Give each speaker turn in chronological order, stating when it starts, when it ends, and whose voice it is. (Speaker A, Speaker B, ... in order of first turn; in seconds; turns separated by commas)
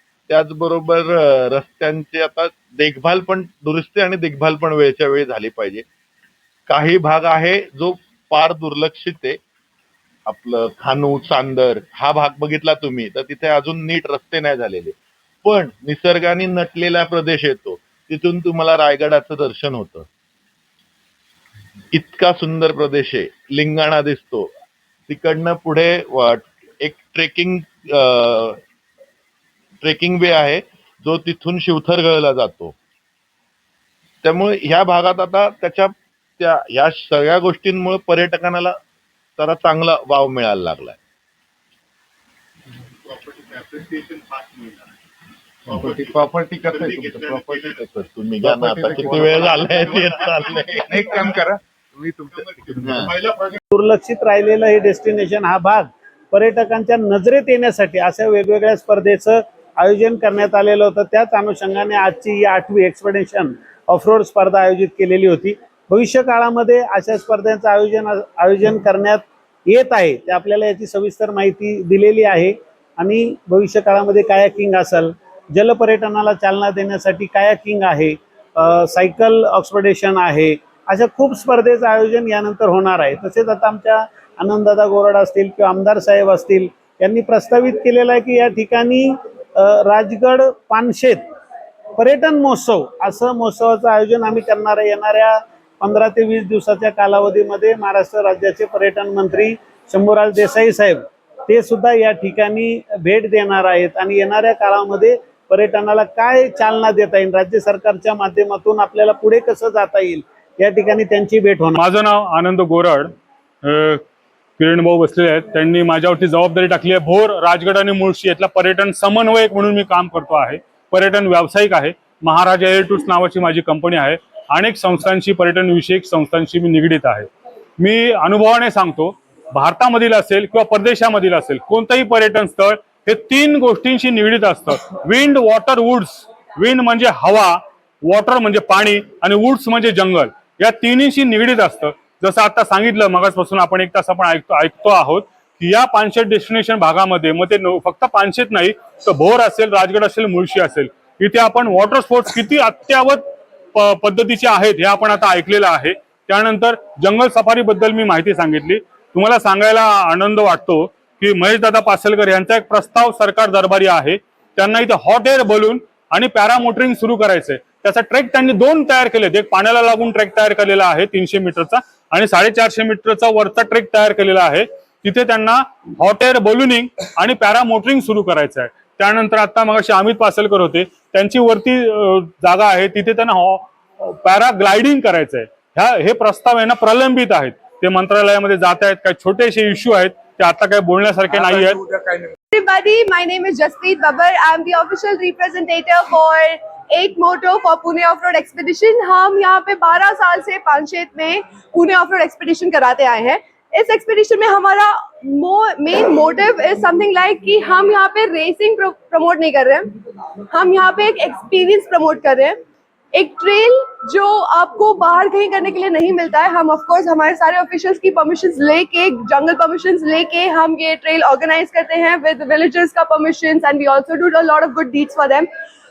Speaker A: 0.3-5.8, Speaker A: 6.7-9.4, Speaker A: 10.3-20.1, Speaker A: 21.9-24.5, Speaker A: 25.1-28.6, Speaker A: 29.8-32.8, Speaker A: 34.2-38.8, Speaker A: 39.4-41.0, Speaker B: 43.0-44.8, Speaker B: 45.7-47.8, Speaker A: 47.0-51.4, Speaker B: 48.4-53.6, Speaker A: 52.8-53.1, Speaker C: 53.7-91.2, Speaker C: 92.0-111.8, Speaker D: 111.8-114.0, Speaker D: 114.6-191.8, Speaker B: 191.4-192.2, Speaker E: 192.5-212.6, Speaker E: 213.1-225.5